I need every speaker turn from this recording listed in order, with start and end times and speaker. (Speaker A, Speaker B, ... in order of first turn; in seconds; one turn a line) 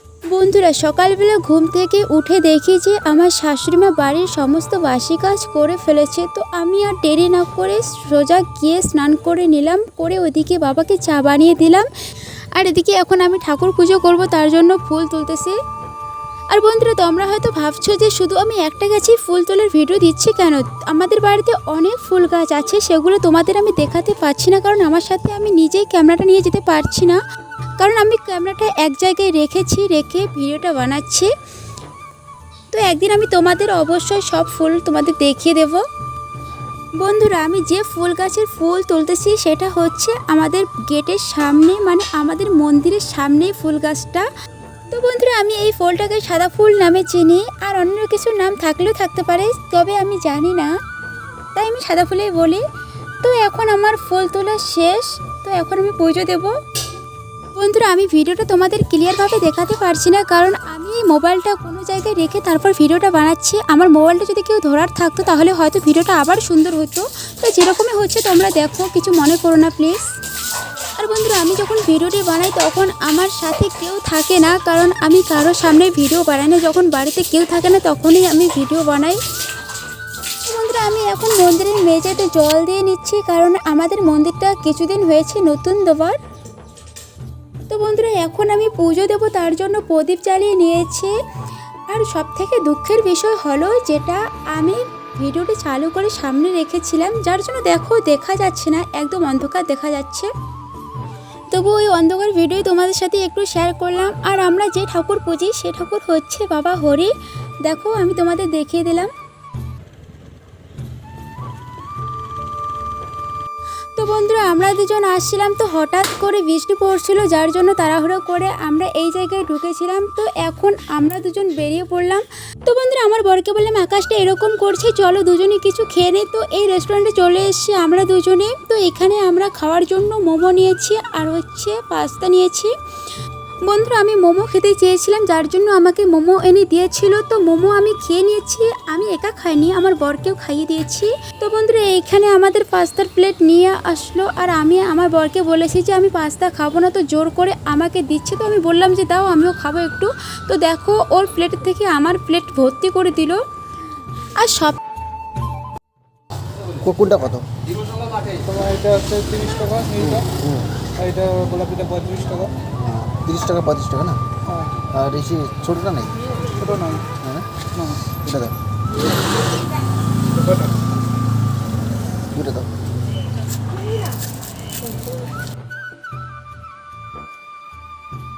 Speaker A: 0.3-11.9
Speaker A: 12.5-15.6
Speaker A: 16.5-27.2
Speaker A: 27.8-31.3
Speaker A: 32.7-35.8
Speaker A: 37.0-44.3
Speaker A: 44.9-50.7
Speaker A: 51.5-52.6
Speaker A: 53.2-56.6
Speaker A: 57.5-70.0
Speaker A: 71.0-79.2
Speaker A: 80.4-86.2
Speaker A: 87.7-91.2
Speaker A: 91.9-100.3
Speaker A: 101.5-109.1
Speaker A: 114.0-132.7
Speaker A: 133.7-153.4
Speaker A: 154.3-154.8
Speaker B: 156.8-157.5
Speaker C: 158.3-160.2
Speaker B: 160.0-160.7
Speaker C: 160.9-162.5
Speaker B: 162.6-164.2
Speaker B: 164.8-166.2
Speaker C: 166.6-167.1
Speaker B: 167.2-168.5
Speaker C: 167.7-168.0
Speaker B: 172.3-172.7